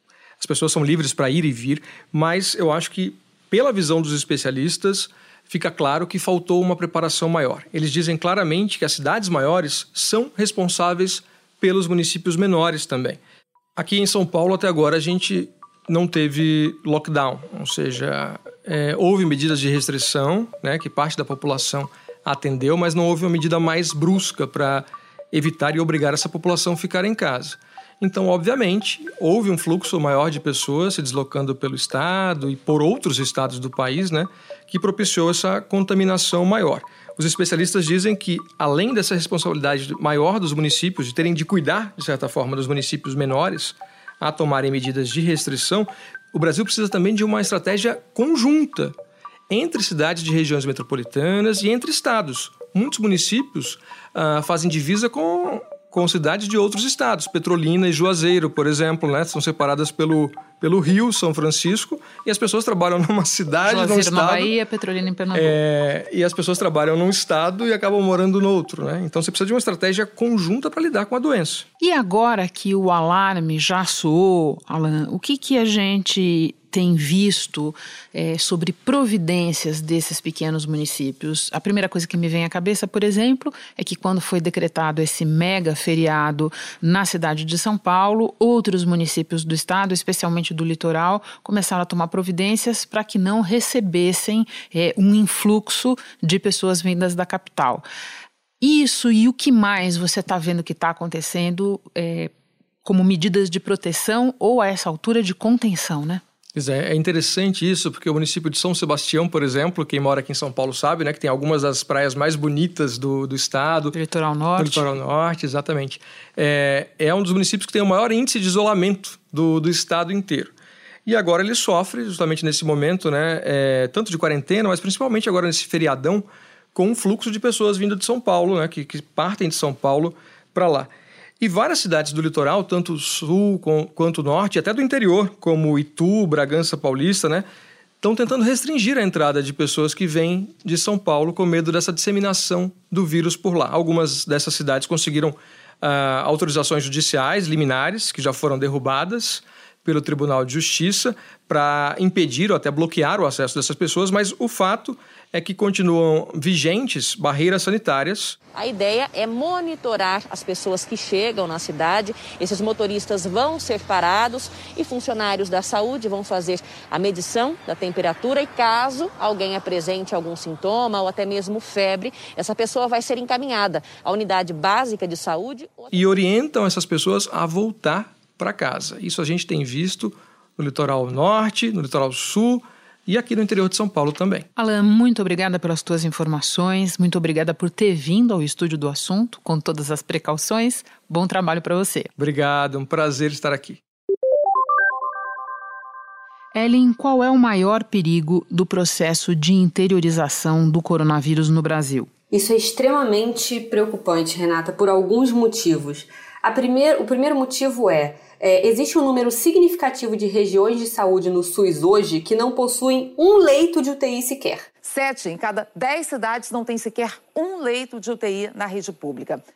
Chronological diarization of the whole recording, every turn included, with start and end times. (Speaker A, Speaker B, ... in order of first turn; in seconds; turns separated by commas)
Speaker A: 0.4-13.2, Speaker A: 13.8-48.9, Speaker A: 49.5-64.5, Speaker B: 63.6-65.5, Speaker A: 65.3-71.7, Speaker B: 71.8-97.8, Speaker B: 98.6-102.3, Speaker B: 102.8-106.2, Speaker A: 106.5-114.0, Speaker B: 113.9-114.8, Speaker A: 114.6-120.5, Speaker A: 121.0-137.4, Speaker A: 138.0-158.4, Speaker C: 158.5-176.1, Speaker A: 175.9-184.5, Speaker B: 184.6-192.1, Speaker A: 192.2-193.8, Speaker B: 196.5-202.1, Speaker D: 202.3-214.7, Speaker E: 214.8-219.4